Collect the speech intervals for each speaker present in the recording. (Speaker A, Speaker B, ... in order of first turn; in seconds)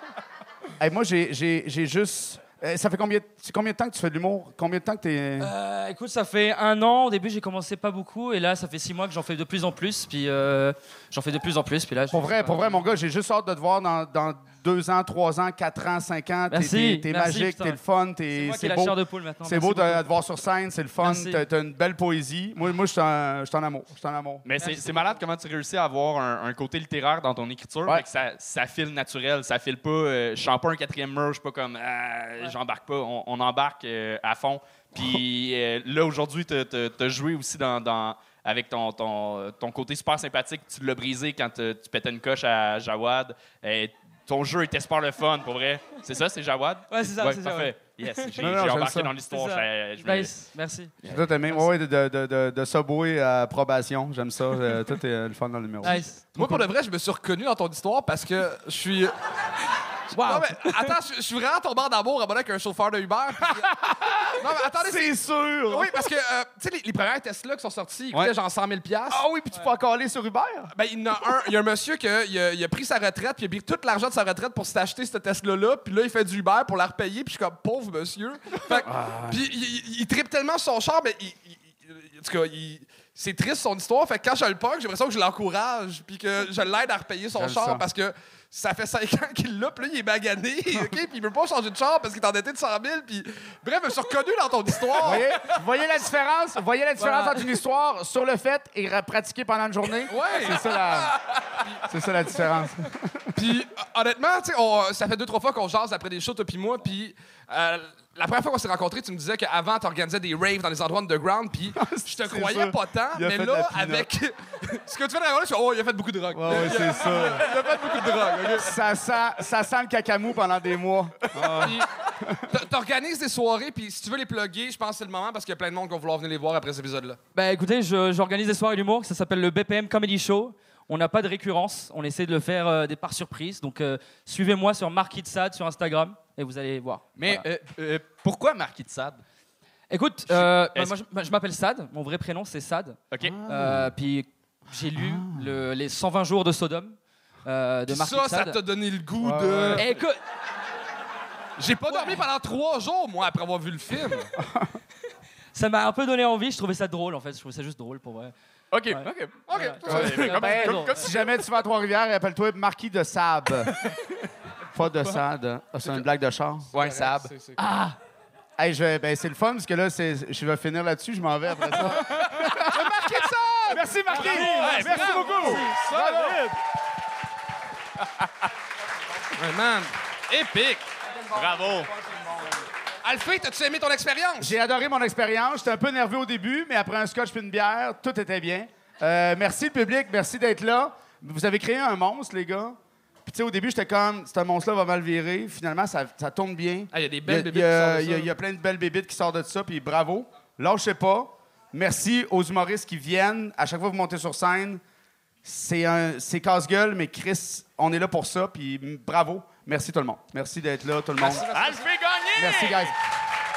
Speaker A: 0.8-5.5, 12.1-24.4, 48.3-49.1, 51.0-56.6, 63.8-65.9, 69.1-70.7, 78.7-79.4, 87.3-87.8, 95.0-101.2, 101.8-103.3, 111.8-114.1, 116.3-117.6, 118.4-122.5, 143.2-143.9, 144.9-145.5, 149.2-149.8, 154.3-154.8, 159.9-163.7, 164.7-166.7, 168.6-176.6, 184.4-204.8, 205.4-211.5, 212.3-212.9
Speaker B: 5.4-12.8, 16.5-17.8, 18.3-20.1, 21.0-21.4, 24.6-25.1, 46.9-51.7, 55.8-56.2, 60.1-60.9, 97.0-97.5, 127.3-137.4, 139.9-148.6, 149.7-150.2, 151.8-152.3, 155.5-158.3, 158.9-160.9, 167.6-167.9, 174.2-175.8
Speaker C: 24.4-50.5, 137.2-139.2, 140.3-140.9, 143.1-143.4, 158.7-161.1, 166.7-167.3, 181.3-181.9, 212.1-212.3
Speaker D: 56.3-59.1, 60.1-63.7, 64.4-69.2, 70.7-95.5, 100.1-101.9, 103.3-118.8, 121.6-121.9, 122.5-127.2, 147.9-149.8, 151.6-154.3, 159.5-160.5, 166.8-167.6, 171.8-176.5, 179.3-180.9, 183.0-184.5, 196.9-198.3, 211.2-211.9